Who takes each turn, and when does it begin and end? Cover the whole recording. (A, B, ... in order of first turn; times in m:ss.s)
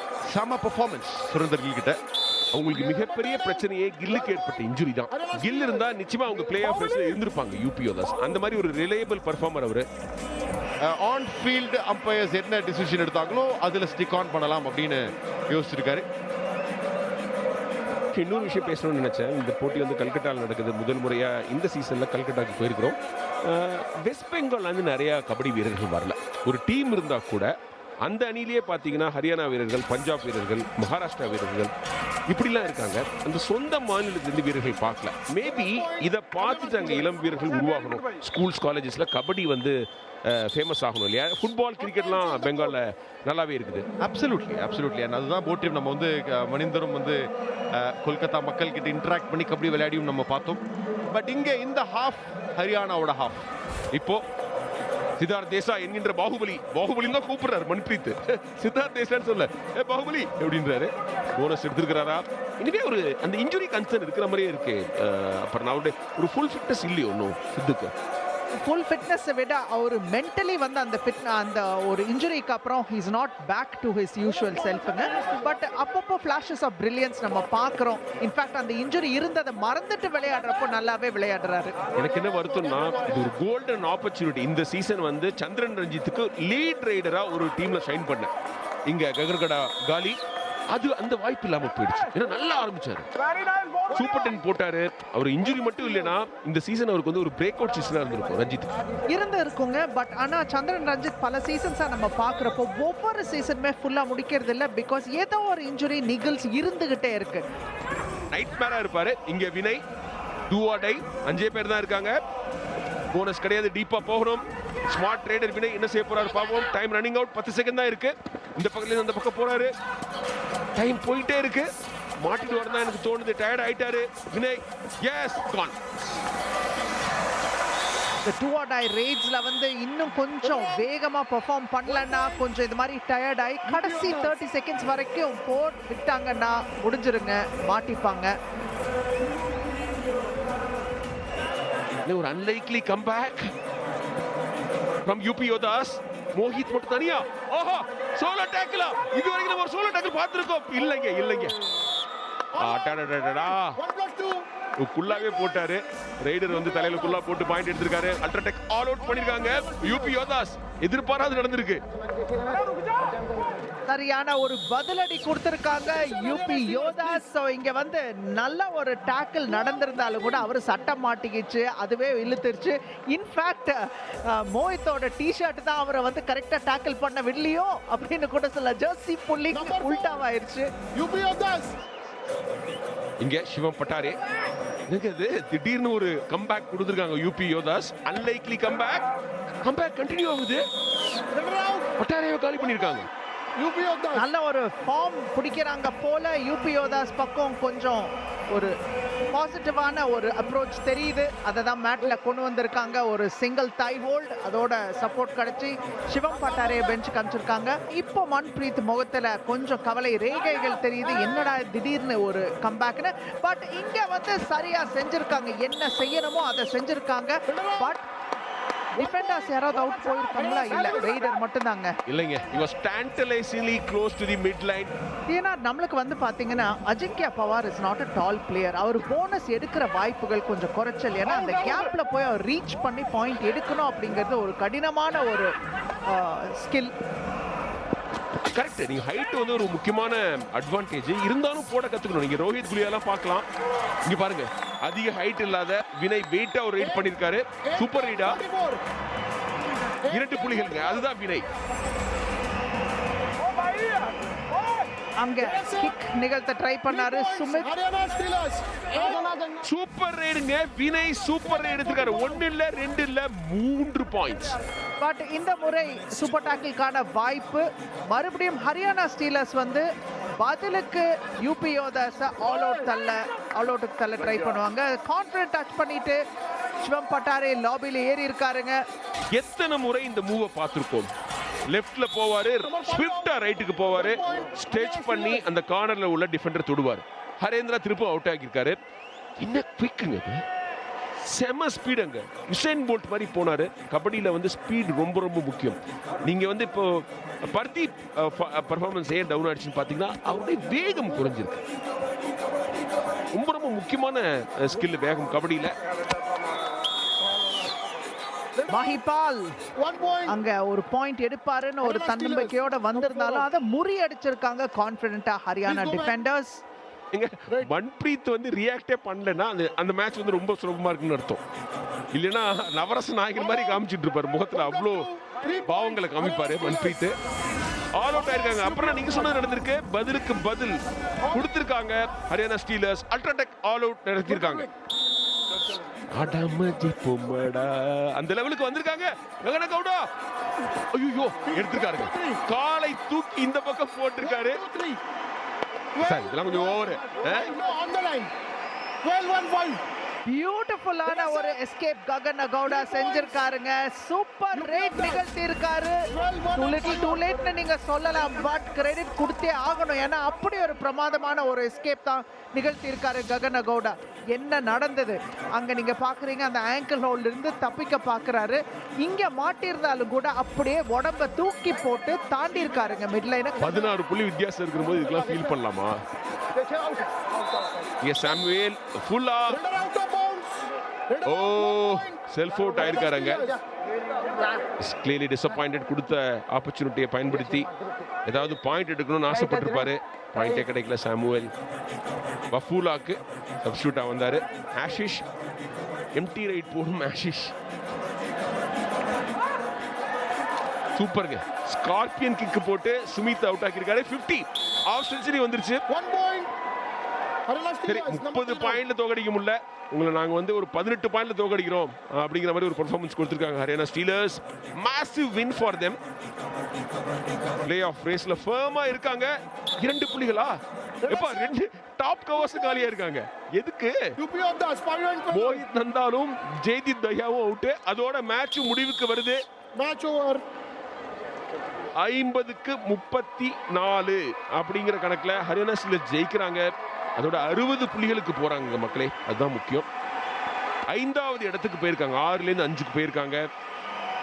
0:00.3-0:02.0 A
0:02.5-0:09.9 B
0:02.7-0:04.3 C
0:05.1-0:07.2 C
0:10.8-0:16.1 A
0:18.1-0:27.5 B
0:28.0-0:31.7 B
0:32.3-0:39.8 B
0:35.4-0:37.7 C
0:40.3-0:43.9 B
0:41.8-0:42.8 C
0:44.0-0:47.2 A
0:47.7-0:53.5 A
0:53.9-0:54.2 B
0:55.2-1:07.9 B
1:08.6-1:21.8 D
1:14.4-1:15.4 C
1:22.0-1:28.3 B
1:22.5-1:23.2 C
1:28.9-1:30.2 B
1:30.7-1:33.1 B
1:33.9-1:38.8 B
1:39.1-1:47.4 D
1:48.3-1:49.8 B
1:50.5-1:52.2 B
1:53.1-1:59.7 B
2:00.8-2:01.7 B
2:02.2-2:05.8 B
2:08.2-2:18.3 D
2:13.7-2:14.3 C
2:22.1-2:23.5 B
2:25.1-2:31.6 B
2:32.5-2:34.5 C
2:32.6-2:33.8 B
2:34.8-2:41.8 B
2:39.1-2:40.0 C
2:43.9-3:00.7 D
2:59.5-3:00.2 C
3:01.0-3:01.8 C
3:03.2-3:04.2 B
3:04.9-3:09.1 B
3:09.6-3:10.6 B
3:11.3-3:11.9 C
3:12.0-3:13.1 B
3:13.6-3:14.2 C
3:14.2-3:18.7 D
3:19.3-3:38.0 D
3:37.5-3:37.9 C
3:39.0-3:42.0 D
3:39.0-3:41.3 C
3:42.1-3:44.9 B
3:45.3-3:55.5 D
3:56.1-3:56.9 D
3:58.5-4:03.5 B
4:04.1-4:08.4 B
4:07.6-4:08.8 C
4:10.0-4:10.6 C
4:10.1-4:11.5 B
4:15.2-4:17.8 D
4:15.4-4:15.9 C
4:16.9-4:19.7 C
4:19.6-4:24.6 B
4:21.6-4:22.4 C
4:25.0-4:29.8 D
4:30.4-4:36.2 D
4:36.8-4:38.8 D
4:39.3-4:41.1 B
4:41.7-4:48.8 B
4:42.7-4:43.3 C
4:43.9-4:45.4 C
4:49.4-4:50.4 B
4:51.3-5:01.6 B
5:03.3-5:05.7 B
5:08.7-5:09.5 D
5:09.8-5:10.3 C
5:10.3-5:16.6 D
5:11.8-5:13.5 C
5:15.7-5:16.2 C
5:17.1-5:21.4 B
5:22.1-5:25.1 B
5:23.4-5:23.8 C
5:24.5-5:27.0 C
5:25.6-5:27.2 B
5:28.0-5:30.8 B
5:28.2-5:29.5 C
5:31.3-5:34.7 B
5:34.3-5:34.7 C
5:36.1-5:40.1 B
5:40.9-5:44.6 B
5:41.5-5:42.4 C
5:44.2-5:45.0 C
5:46.0-5:48.3 C
5:46.0-5:47.6 B
5:49.0-5:49.8 C
5:50.3-6:13.9 D
5:51.1-5:51.5 C
5:52.7-5:53.4 C
5:54.6-5:55.2 C
5:56.1-5:57.4 C
6:13.6-6:16.0 B
6:18.0-6:19.6 B
6:19.5-6:22.2 C
6:21.2-6:23.6 B
6:22.7-6:23.6 C
6:24.8-6:27.7 B
6:28.2-6:31.5 B
6:32.5-6:35.2 B
6:36.2-6:37.5 B
6:41.0-6:45.8 B
6:45.9-6:46.5 C
6:47.5-6:48.8 C
6:47.9-6:56.0 B
6:57.6-7:04.1 B
7:04.2-7:05.6 C
7:05.3-7:09.4 B
7:09.8-7:10.4 C
7:12.0-7:19.9 B
7:20.9-7:23.4 B